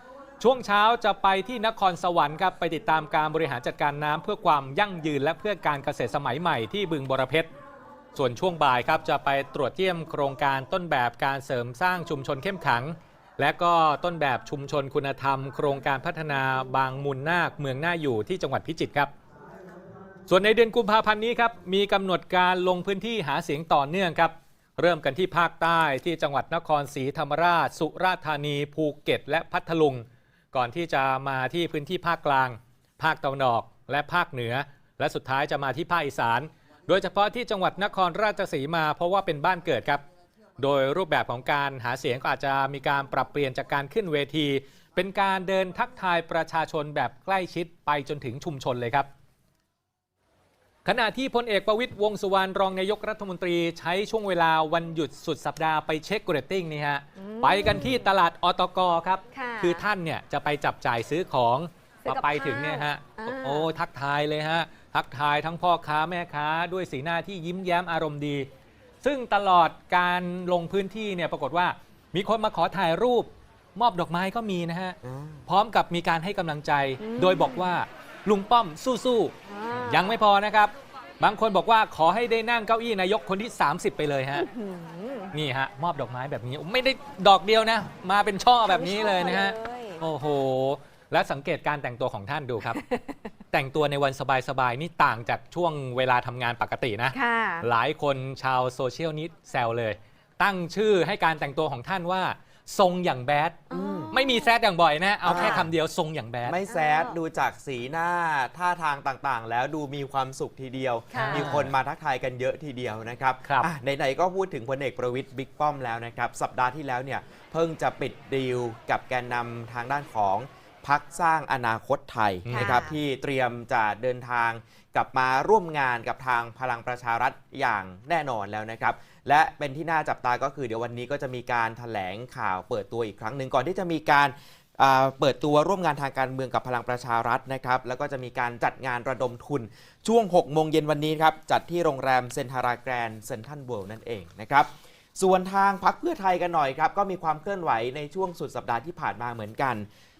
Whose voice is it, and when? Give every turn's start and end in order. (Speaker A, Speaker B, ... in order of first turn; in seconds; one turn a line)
Speaker A: 0.4-7.5
Speaker A: 8.1-19.1
Speaker A: 20.3-40.0
Speaker A: 40.6-49.1
Speaker A: 50.8-68.5
Speaker B: 57.1-58.1
Speaker B: 59.3-59.9
Speaker B: 62.0-63.7
Speaker A: 69.0-79.3
Speaker C: 75.0-75.4
Speaker B: 77.0-77.7
Speaker B: 79.5-80.2
Speaker A: 79.9-84.5
Speaker B: 84.3-85.3
Speaker A: 85.3-92.8
Speaker B: 88.6-90.0
Speaker A: 93.5-106.6
Speaker B: 97.1-97.7
Speaker C: 103.7-104.1
Speaker B: 103.7-104.5
Speaker C: 105.2-105.7
Speaker B: 105.3-105.7
Speaker C: 106.4-149.9
Speaker B: 106.7-107.2
Speaker B: 111.1-111.5
Speaker A: 111.1-111.7
Speaker A: 113.4-113.7
Speaker A: 122.4-122.8
Speaker B: 122.5-123.0